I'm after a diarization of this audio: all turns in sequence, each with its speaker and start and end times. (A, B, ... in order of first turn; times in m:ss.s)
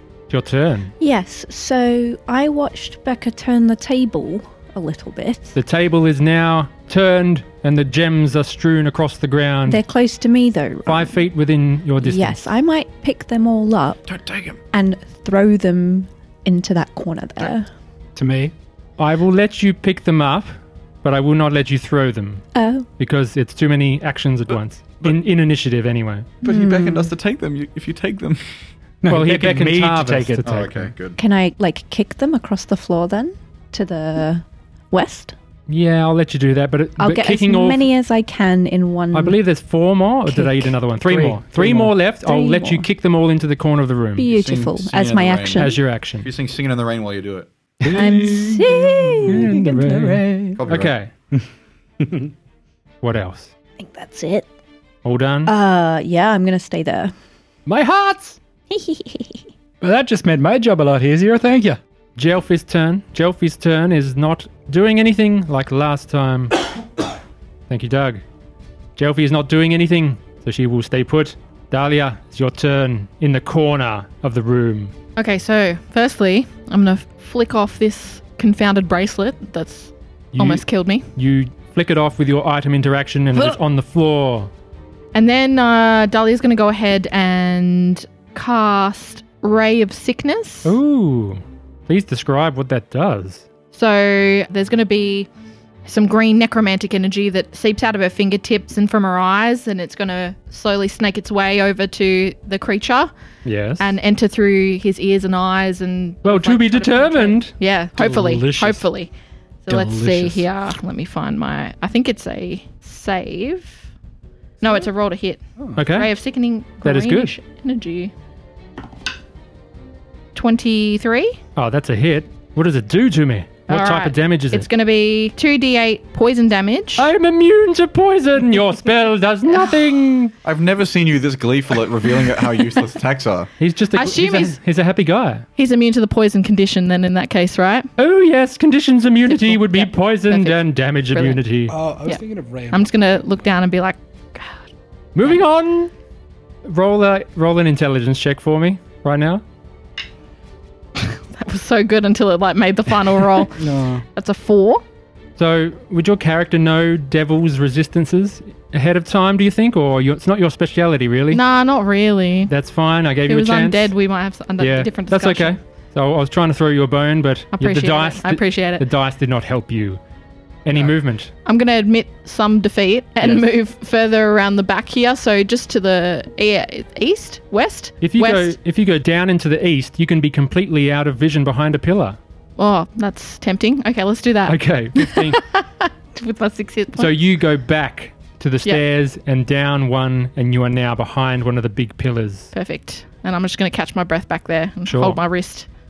0:00.3-0:00.9 A
0:01.0-0:05.6 B
0:05.5-0:09.8 A
0:09.7-0:11.2 B
0:10.9-0:12.5 A
0:12.0-0:14.1 B
0:14.1-0:14.6 C
0:14.7-0:17.7 B
0:18.2-0:18.5 D
0:19.0-0:22.4 A
0:22.6-0:22.9 B
0:23.0-0:26.3 A
0:26.4-0:28.4 C
0:26.4-0:27.1 B
0:29.0-0:30.4 D
0:29.1-0:30.9 A
0:30.4-0:31.2 C
0:31.2-0:35.4 B
0:35.7-0:37.9 A
0:37.0-0:39.4 B
0:39.1-0:44.3 A
0:40.3-0:40.7 B
0:41.0-0:41.9 D
0:42.2-0:42.9 B
0:44.2-0:45.8 B
0:44.3-0:47.5 C
0:45.5-0:46.3 A
0:47.8-0:49.5 D
0:47.9-0:50.6 B
0:49.3-0:51.1 A
0:50.6-0:50.9 C
0:52.0-0:52.3 D
0:53.0-0:53.5 A
0:53.8-0:54.5 B
0:55.0-0:55.5 A
0:55.4-0:57.1 B
0:57.6-0:58.4 A
0:58.7-0:59.4 B
0:59.8-1:01.8 D
1:02.2-1:06.6 A
1:07.7-1:08.2 A
1:09.0-1:14.9 A
1:15.2-1:21.1 E
1:20.3-1:20.6 A
1:21.1-1:24.5 A
1:25.1-1:30.8 E
1:30.6-1:33.4 A
1:33.7-1:35.3 E
1:35.8-1:43.1 E
1:43.4-1:43.9 A
1:43.8-1:49.1 E
1:46.2-1:47.5 A
1:48.0-1:48.8 D
1:49.6-1:53.9 E
1:49.7-1:50.4 D
1:54.6-1:58.1 E
1:55.8-1:56.1 A
1:56.8-1:57.3 A
2:00.4-2:01.4 E
2:01.6-2:04.7 A
2:03.7-2:07.1 E
2:07.0-2:10.3 A
2:09.5-2:09.9 E
2:10.4-2:13.5 C
2:13.6-2:15.4 A
2:13.9-2:14.6 E
2:15.6-2:17.9 E
2:18.0-2:21.8 A
2:19.3-2:21.4 E
2:21.7-2:23.0 D
2:22.0-2:24.7 E
2:25.1-2:25.9 A
2:26.6-2:29.4 A
2:31.0-2:34.8 E
2:33.6-2:34.0 D
2:35.4-2:41.4 A
2:41.3-2:42.5 E
2:42.5-2:43.9 A
2:43.3-2:45.6 E
2:44.6-2:50.0 A
2:47.6-2:48.8 E
2:50.6-2:51.3 A
2:51.4-2:58.6 E
2:58.0-3:02.2 A
3:02.6-3:07.2 E
3:04.4-3:05.4 A
3:07.0-3:12.5 A
3:12.5-3:15.7 E
3:14.9-3:15.2 A